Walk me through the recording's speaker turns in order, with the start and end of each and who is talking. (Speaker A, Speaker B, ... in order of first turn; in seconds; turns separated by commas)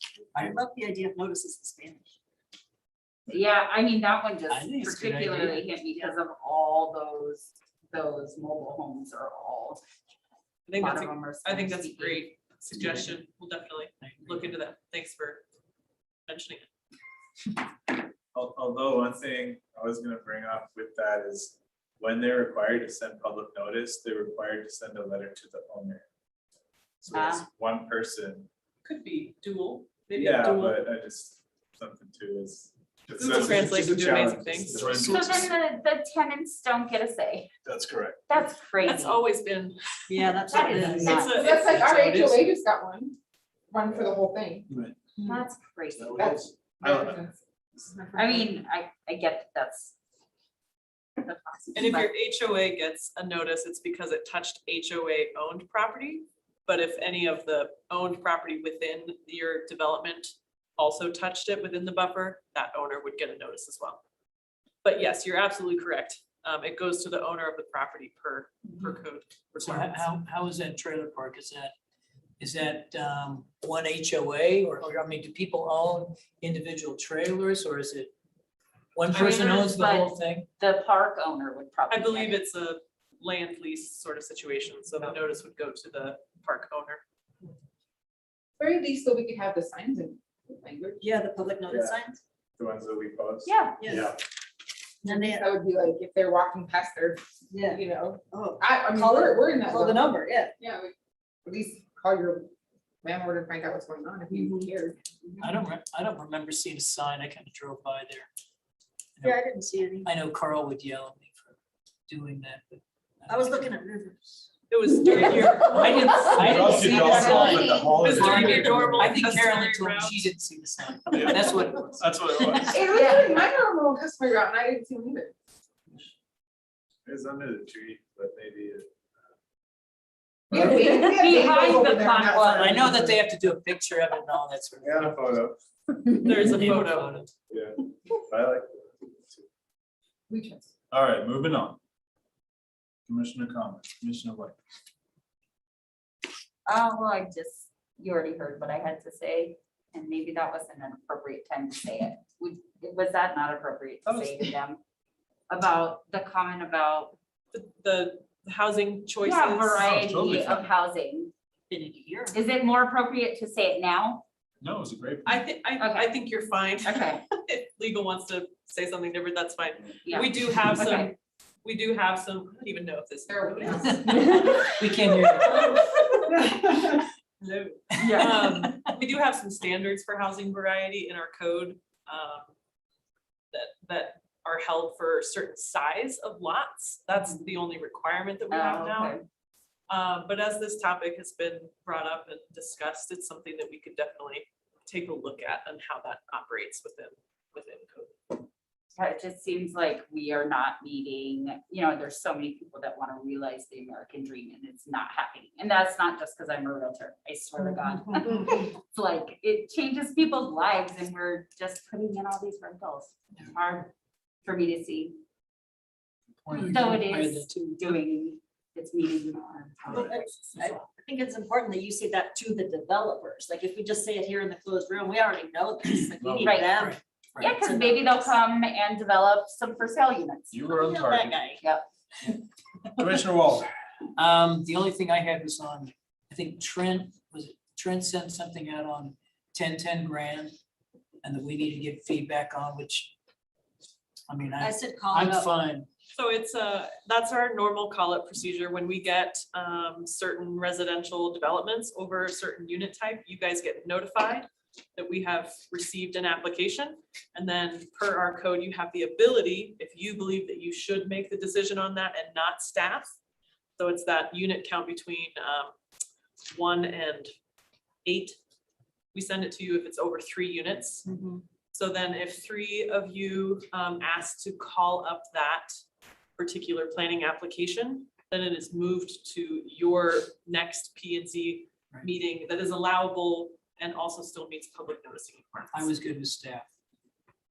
Speaker A: 0.3-0.6, Speaker B: 0.4-2.2, Speaker C: 3.3-9.8, Speaker A: 4.5-5.7, Speaker D: 10.7-15.4, Speaker C: 10.8-12.3, Speaker A: 14.0-14.5, Speaker D: 16.3-16.7, Speaker E: 18.3-26.1, Speaker E: 27.0-28.5, Speaker C: 27.1-27.4, Speaker D: 28.8-30.8, Speaker E: 30.1-35.5, Speaker D: 33.2-35.2, Speaker C: 35.0-37.5, Speaker E: 37.6-38.2, Speaker C: 38.3-39.2, Speaker D: 38.9-39.8, Speaker B: 40.1-41.2, Speaker D: 40.3-41.9, Speaker C: 40.5-41.5, Speaker F: 41.3-43.2, Speaker A: 41.6-42.0, Speaker F: 43.7-44.7, Speaker E: 44.7-45.0, Speaker C: 45.2-46.4, Speaker E: 46.0-47.2, Speaker F: 46.1-48.4, Speaker C: 48.1-50.0, Speaker C: 51.2-52.1, Speaker D: 51.8-64.0, Speaker D: 64.8-70.1, Speaker A: 69.6-71.7, Speaker A: 72.4-78.1, Speaker A: 79.0-80.5, Speaker D: 79.1-79.7, Speaker C: 79.2-82.4, Speaker D: 81.9-87.0, Speaker F: 88.6-91.0, Speaker B: 91.0-92.2, Speaker E: 91.7-92.0, Speaker E: 92.6-94.2, Speaker C: 93.5-93.8, Speaker B: 93.8-94.1, Speaker F: 95.0-100.9, Speaker B: 95.0-95.5, Speaker B: 97.5-100.5, Speaker F: 101.5-102.5, Speaker F: 103.0-105.0, Speaker B: 104.3-104.7, Speaker A: 105.4-108.3, Speaker A: 109.2-109.4, Speaker B: 109.2-110.1, Speaker A: 110.0-111.6, Speaker A: 112.1-113.7, Speaker B: 113.3-114.5, Speaker D: 114.7-116.3, Speaker A: 115.7-122.9, Speaker C: 115.8-118.6, Speaker E: 116.4-119.2, Speaker D: 116.8-120.3, Speaker E: 121.1-122.8, Speaker F: 122.7-125.3, Speaker C: 122.9-123.5, Speaker E: 127.0-128.9, Speaker E: 130.5-130.8, Speaker F: 130.5-133.2, Speaker C: 130.8-132.9, Speaker A: 132.5-135.3, Speaker E: 134.8-135.6, Speaker D: 136.2-137.3, Speaker A: 136.4-137.3, Speaker E: 137.5-139.5, Speaker F: 140.3-140.7, Speaker E: 140.9-141.8, Speaker E: 143.1-144.6, Speaker C: 146.7-154.8, Speaker C: 155.5-157.2, Speaker D: 157.5-159.9, Speaker C: 159.2-161.3, Speaker E: 159.8-160.7, Speaker B: 161.7-162.4, Speaker C: 162.3-164.2, Speaker E: 164.6-165.4, Speaker D: 165.2-173.9, Speaker C: 165.8-166.2, Speaker C: 166.8-167.2, Speaker C: 170.1-171.1, Speaker F: 173.3-174.5, Speaker A: 173.8-175.8, Speaker D: 177.4-182.5, Speaker A: 177.9-178.9, Speaker C: 178.0-178.5, Speaker D: 183.5-189.1, Speaker C: 188.5-189.2, Speaker D: 189.9-198.4, Speaker C: 198.9-213.9, Speaker C: 214.4-215.2, Speaker A: 216.4-218.0, Speaker C: 216.5-220.9, Speaker A: 219.9-220.1, Speaker B: 219.9-228.4, Speaker E: 226.2-226.6, Speaker C: 226.4-226.7, Speaker A: 226.7-227.6, Speaker C: 227.4-230.8, Speaker E: 230.5-231.4, Speaker B: 230.7-231.6, Speaker C: 231.6-231.8, Speaker E: 232.9-233.7, Speaker A: 234.2-240.5, Speaker A: 241.2-243.1, Speaker A: 244.3-245.9, Speaker B: 244.6-245.5, Speaker D: 246.1-263.2, Speaker D: 263.8-265.8, Speaker D: 266.5-267.3, Speaker D: 268.1-268.4, Speaker D: 269.1-271.1, Speaker B: 271.1-271.4, Speaker D: 271.7-275.7, Speaker D: 276.4-285.9, Speaker A: 285.7-286.7